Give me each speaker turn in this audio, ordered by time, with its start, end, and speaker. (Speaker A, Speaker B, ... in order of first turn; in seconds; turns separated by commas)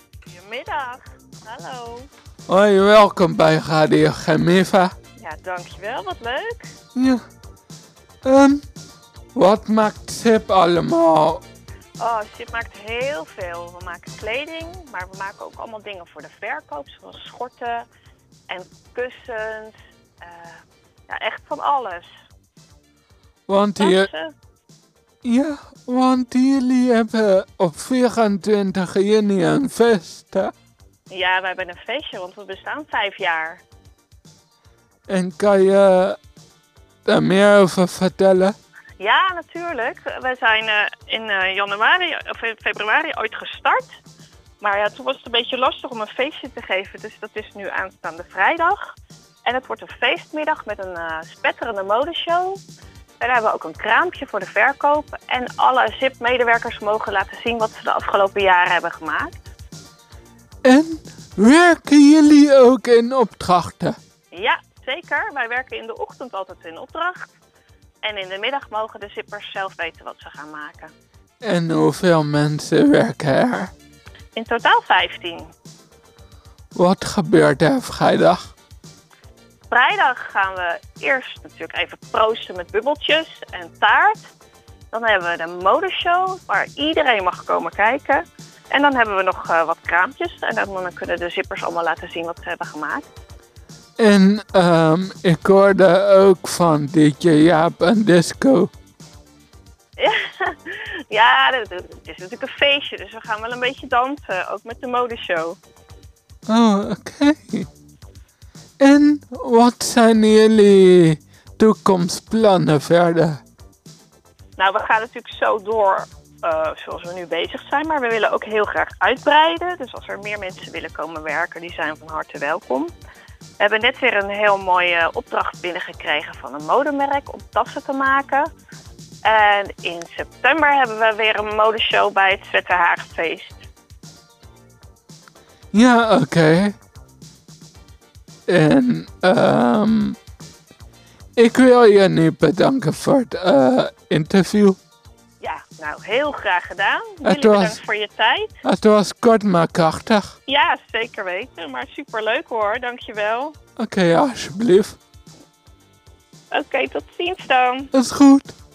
Speaker A: 0.3-2.1, Speaker B: 2.5-4.9, Speaker A: 5.2-6.7, Speaker B: 6.9-7.2, Speaker B: 8.2-8.6, Speaker B: 9.3-11.4, Speaker A: 12.0-17.9, Speaker A: 18.5-22.1, Speaker B: 23.5-24.1, Speaker A: 23.8-24.3, Speaker B: 25.2-30.5, Speaker A: 31.1-33.6, Speaker B: 35.1-36.2, Speaker B: 37.0-38.5, Speaker A: 39.0-44.0, Speaker A: 44.6-52.6, Speaker A: 53.2-59.4, Speaker B: 60.6-64.0, Speaker A: 64.3-67.3, Speaker A: 68.0-70.9, Speaker B: 71.4-73.7, Speaker A: 74.3-75.5, Speaker B: 76.7-78.5, Speaker A: 79.7-84.2, Speaker A: 84.9-93.1, Speaker B: 94.0-98.7, Speaker A: 100.0-105.6, Speaker B: 106.5-107.7, Speaker B: 108.8-113.4, Speaker A: 114.6-122.9, Speaker A: 123.6-128.5, Speaker A: 129.2-133.6, Speaker B: 135.7-136.7, Speaker B: 138.5-140.2, Speaker B: 141.4-144.8, Speaker A: 145.4-148.5, Speaker B: 147.2-147.8, Speaker B: 148.6-150.3, Speaker A: 150.5-153.5, Speaker B: 153.8-155.0, Speaker A: 156.5-157.9, Speaker B: 157.9-158.5